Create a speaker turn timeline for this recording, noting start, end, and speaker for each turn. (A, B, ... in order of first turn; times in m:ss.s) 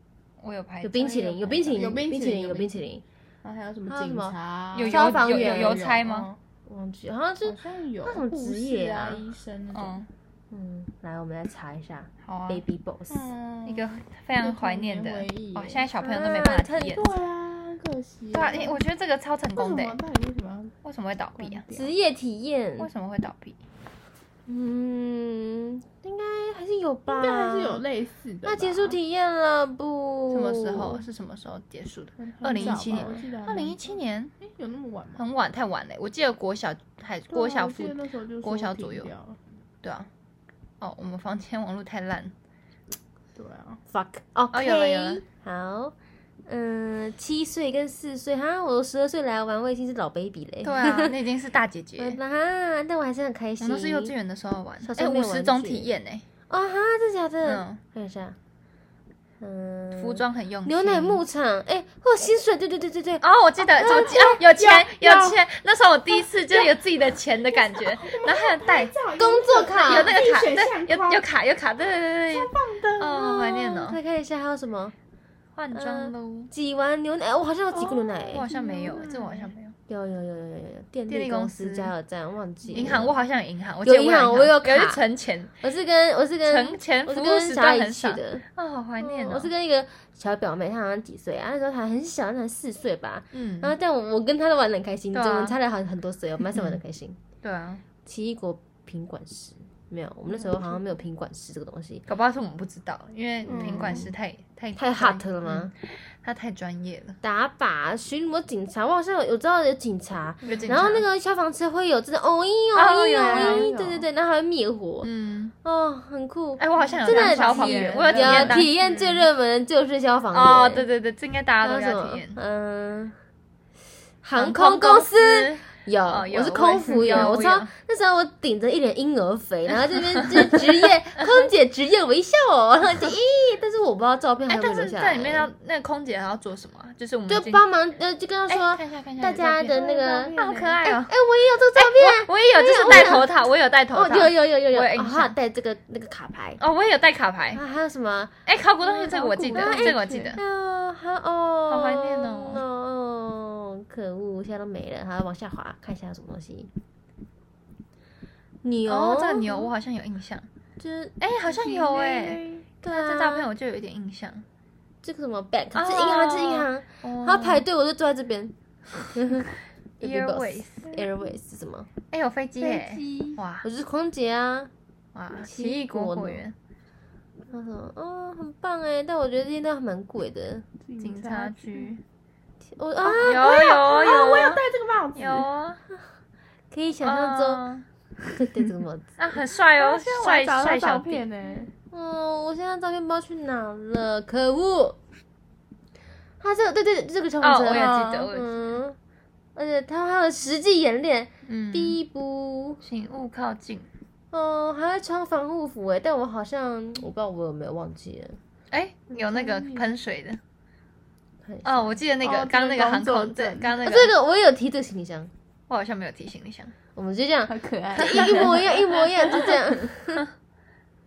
0:00.4-0:01.9 A
0:00.8-0:03.0 B
0:01.7-0:02.7 C
0:03.4-0:06.4 C
0:03.9-0:06.0 B
0:04.7-0:06.3 A
0:06.7-0:09.2 B
0:07.4-0:10.1 C
0:09.7-0:10.1 A
0:10.5-0:13.3 B
0:12.2-0:12.6 A
0:13.1-0:18.8 C
0:13.6-0:17.1 A
0:16.0-0:17.1 B
0:18.3-0:20.0 A
0:19.5-0:20.7 C
0:20.8-0:21.6 A
0:21.4-0:21.9 C
0:21.7-0:22.9 B
0:22.8-0:23.6 A
0:24.5-0:27.8 B
0:27.1-0:29.0 C
0:28.4-0:31.0 B
0:30.3-0:34.3 A
0:32.2-0:35.2 C
0:32.6-0:33.2 B
0:35.2-0:39.1 A
0:37.3-0:39.4 C
0:39.8-0:40.1 A
0:40.8-0:42.3 A
0:43.3-0:43.8 C
0:43.9-0:45.9 B
0:44.5-0:45.2 A
0:46.5-0:51.1 B
0:50.6-0:52.2 A
0:52.0-0:54.1 B
0:53.6-0:56.2 A
0:54.8-0:55.9 B
0:56.5-0:58.4 B
0:57.4-0:57.8 A
0:59.4-1:03.2 B
0:59.9-1:01.2 A
1:03.2-1:09.0 A
1:03.7-1:05.4 C
1:03.8-1:04.3 B
1:06.2-1:06.8 C
1:07.4-1:11.3 C
1:09.2-1:10.2 B
1:09.8-1:14.0 A
1:12.3-1:13.3 C
1:13.2-1:14.9 B
1:15.6-1:16.5 A
1:15.7-1:18.5 B
1:17.7-1:19.5 C
1:18.3-1:19.7 A
1:19.9-1:23.2 B
1:21.1-1:21.9 A
1:22.6-1:23.0 C
1:22.7-1:25.6 A
1:23.8-1:25.0 B
1:25.6-1:28.4 B
1:26.4-1:29.5 A
1:29.0-1:37.2 B
1:33.3-1:33.8 A
1:35.1-1:35.6 A
1:36.5-1:36.8 A
1:37.4-1:37.8 A
1:38.0-1:42.0 B
1:40.3-1:40.9 C
1:42.1-1:47.2 A
1:43.4-1:44.1 B
1:43.4-1:44.0 C
1:44.7-1:45.7 B
1:47.2-1:55.1 B
1:50.4-1:51.0 A
1:50.4-1:50.7 C
1:52.7-1:54.0 A
1:53.2-1:54.0 C
1:55.0-1:55.5 A
1:55.6-2:00.9 B
1:56.6-1:59.3 A
1:56.8-1:58.7 C
2:00.3-2:02.4 A
2:01.6-2:03.1 B
2:04.2-2:15.5 B
2:04.4-2:07.7 A
2:11.2-2:11.5 A
2:12.8-2:13.2 A
2:14.5-2:17.6 A
2:17.3-2:23.3 B
2:18.5-2:19.8 A
2:19.7-2:20.8 C
2:20.4-2:21.1 A
2:21.8-2:25.3 A
2:23.9-2:26.6 B
2:26.6-2:27.6 A
2:27.5-2:36.7 B
2:28.4-2:30.4 A
2:29.5-2:30.4 C
2:31.7-2:32.6 A
2:38.6-2:39.7 B
2:38.9-2:40.5 A
2:40.8-2:41.1 B
2:41.2-2:44.4 A
2:41.4-2:42.7 C
2:42.8-2:43.5 B
2:45.0-2:51.9 B
2:45.8-2:47.6 A
2:50.0-2:50.9 A
2:52.1-2:53.7 A
2:52.6-2:53.4 C
2:53.6-2:54.7 B
2:55.1-2:56.6 A
2:55.4-2:56.4 B
2:57.5-3:00.6 B
3:00.8-3:02.0 C
3:01.0-3:02.0 A
3:02.6-3:03.6 B
3:03.0-3:05.5 C
3:03.1-3:04.6 A
3:05.1-3:05.8 A
3:06.7-3:07.6 B
3:07.0-3:07.8 A
3:08.3-3:09.1 B
3:09.2-3:11.2 A
3:09.8-3:11.7 C
3:11.9-3:15.0 B
3:16.4-3:19.0 B
3:17.4-3:18.5 A
3:17.6-3:18.3 C
3:19.6-3:22.8 B
3:21.4-3:22.0 A
3:22.8-3:23.9 A
3:24.3-3:28.4 B
3:28.7-3:30.4 A
3:29.2-3:29.8 C
3:31.4-3:32.0 B
3:31.6-3:34.1 A
3:32.2-3:33.8 C
3:33.8-3:35.3 B
3:35.7-3:36.7 A
3:36.9-3:40.3 B
3:37.5-3:39.8 C
3:38.0-3:39.6 A